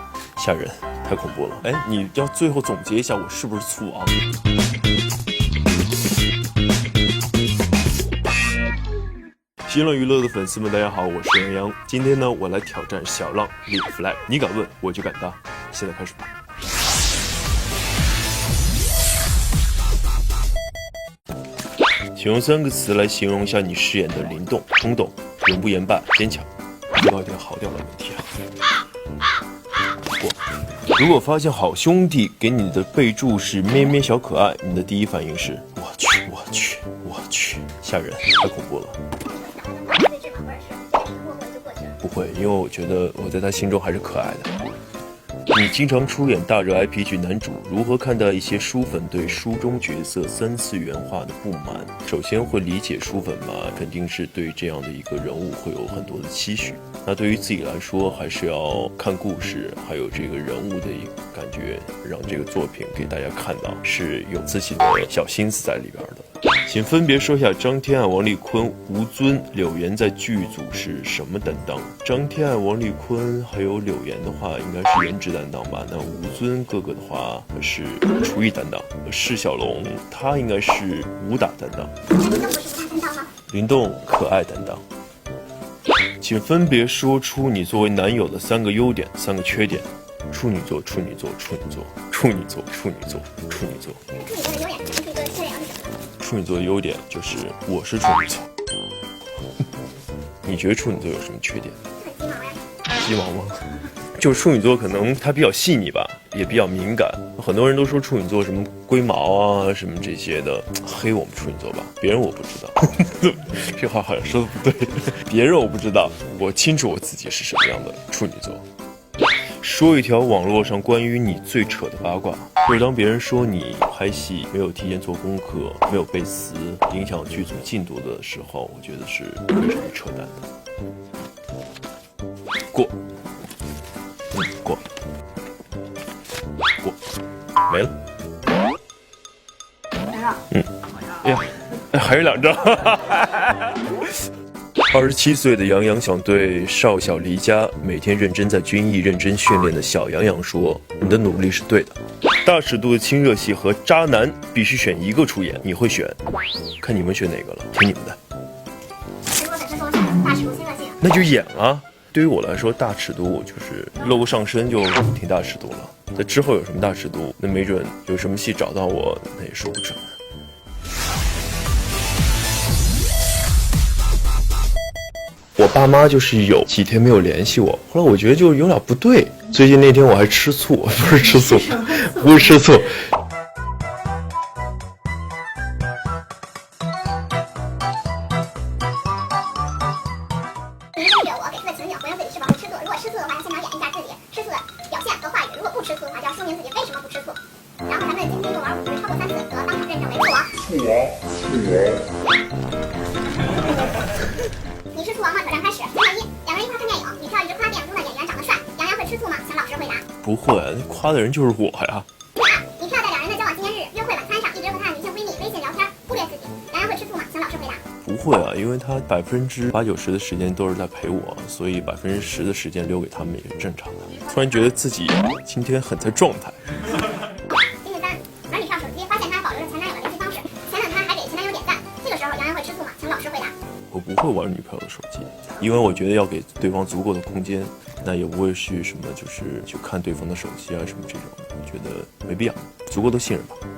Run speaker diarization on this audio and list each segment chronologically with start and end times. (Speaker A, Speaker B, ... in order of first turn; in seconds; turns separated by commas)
Speaker A: 0.4-4.2, Speaker A: 9.7-16.3, Speaker A: 22.1-28.2, Speaker A: 30.1-30.4, Speaker A: 30.9-39.0, Speaker B: 39.2-42.0, Speaker A: 42.0-44.5, Speaker A: 45.5-81.9, Speaker B: 82.1-83.3, Speaker A: 83.5-84.8, Speaker A: 86.2-94.0, Speaker B: 94.1-96.0, Speaker A: 96.2-98.5, Speaker A: 100.4-101.8, Speaker B: 102.0-102.6, Speaker A: 102.9-103.6, Speaker A: 104.1-118.6, Speaker A: 119.6-130.4, Speaker A: 134.3-134.8, Speaker A: 137.7-137.9, Speaker A: 140.5-143.8, Speaker A: 144.9-156.2, Speaker A: 156.8-158.2, Speaker B: 159.3-161.0, Speaker A: 161.0-170.1, Speaker A: 175.6-183.1, Speaker B: 190.9-200.5, Speaker B: 204.9-210.0, Speaker A: 210.2-212.1, Speaker B: 212.3-217.8, Speaker A: 218.0-226.6, Speaker B: 227.5-233.5, Speaker A: 233.9-243.6